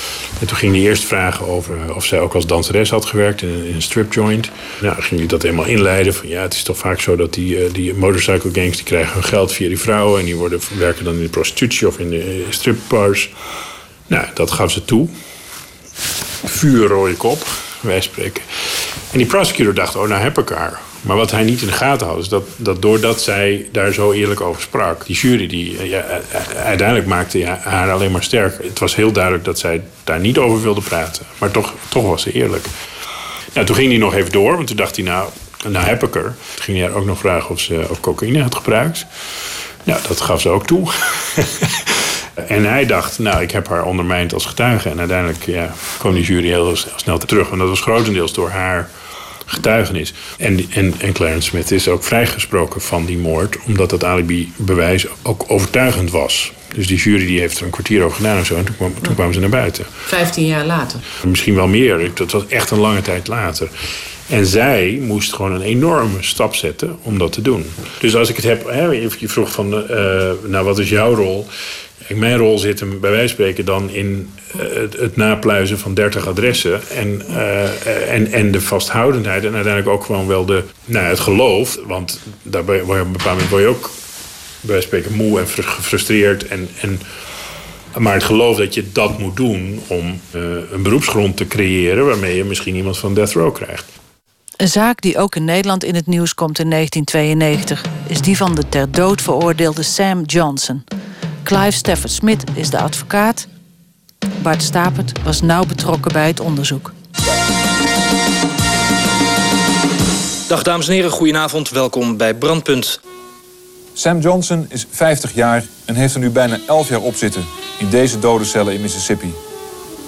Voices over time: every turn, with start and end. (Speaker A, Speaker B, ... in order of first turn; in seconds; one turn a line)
Speaker A: 0.4-13.3
Speaker A: 14.1-15.1
Speaker A: 16.4-32.7
Speaker A: 33.5-39.1
Speaker A: 39.8-48.9
Speaker A: 49.5-59.9
Speaker B: 60.0-61.0
Speaker A: 61.2-63.7
Speaker A: 64.3-71.5
Speaker A: 72.0-83.9
Speaker A: 84.6-87.0
Speaker A: 87.9-93.9
Speaker B: 94.6-100.8
Speaker B: 101.4-103.5
Speaker B: 104.4-106.9
Speaker C: 110.5-113.0
Speaker D: 114.0-119.4